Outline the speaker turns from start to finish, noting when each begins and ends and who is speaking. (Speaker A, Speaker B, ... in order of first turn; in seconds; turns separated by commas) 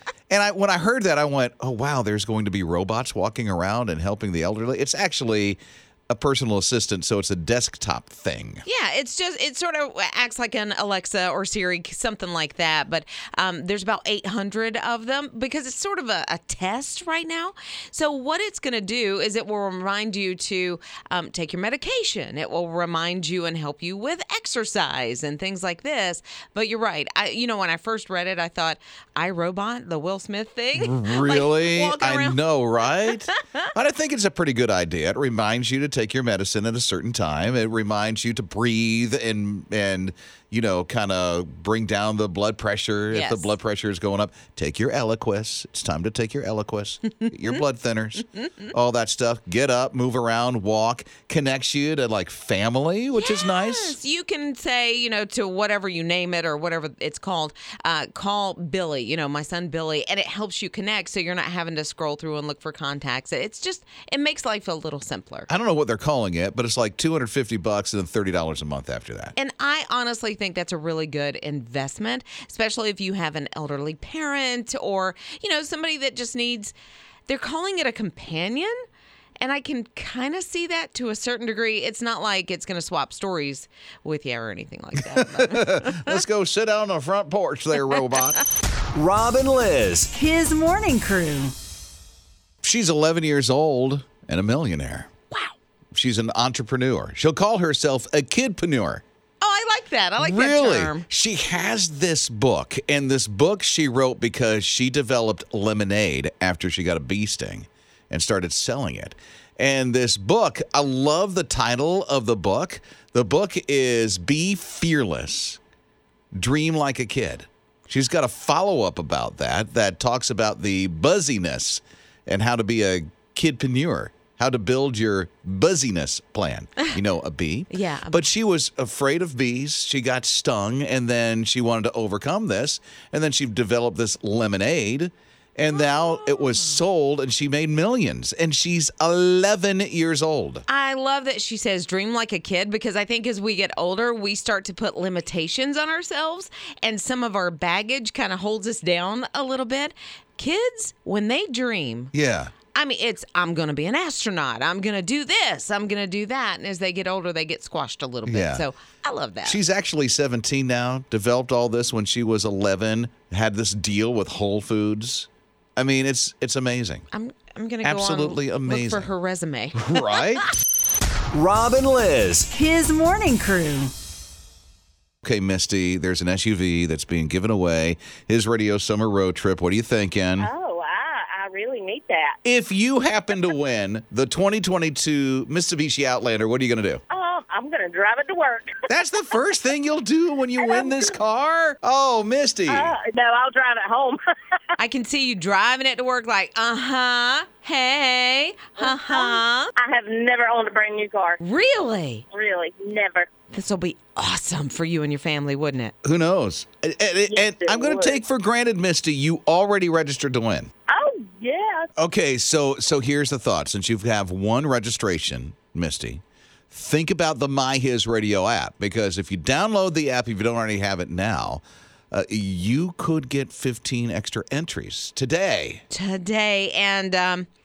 Speaker A: 0.3-8.6, Speaker B: 8.6-33.7, Speaker A: 30.8-54.0, Speaker B: 43.1-43.5, Speaker B: 53.2-65.5, Speaker A: 65.5-69.3, Speaker B: 69.4-76.7, Speaker B: 77.3-78.8, Speaker B: 79.4-86.2, Speaker A: 85.2-88.4, Speaker C: 89.0-90.2, Speaker D: 90.2-91.5, Speaker B: 90.8-91.5, Speaker A: 92.6-95.1, Speaker A: 95.9-99.0, Speaker B: 99.4-101.0, Speaker A: 100.2-115.6, Speaker A: 116.4-140.6, Speaker B: 127.7-128.3, Speaker B: 135.7-136.8, Speaker B: 140.7-152.1, Speaker A: 152.1-152.5, Speaker B: 152.7-159.6, Speaker A: 158.3-158.7, Speaker A: 159.4-167.1, Speaker B: 167.1-169.9, Speaker A: 167.8-169.1, Speaker A: 169.7-170.5, Speaker C: 171.3-172.6, Speaker D: 172.5-173.9, Speaker A: 175.2-180.5, Speaker E: 180.4-182.4, Speaker A: 182.4-187.0, Speaker E: 187.1-188.9, Speaker A: 188.9-193.0, Speaker E: 190.6-191.1, Speaker E: 192.7-194.6, Speaker B: 194.8-199.7, Speaker E: 198.8-201.4, Speaker B: 201.4-202.2, Speaker E: 202.3-203.3, Speaker B: 203.5-205.9, Speaker A: 206.0-210.7, Speaker E: 207.3-208.2, Speaker E: 210.9-211.9, Speaker A: 212.0-225.8, Speaker B: 225.9-227.5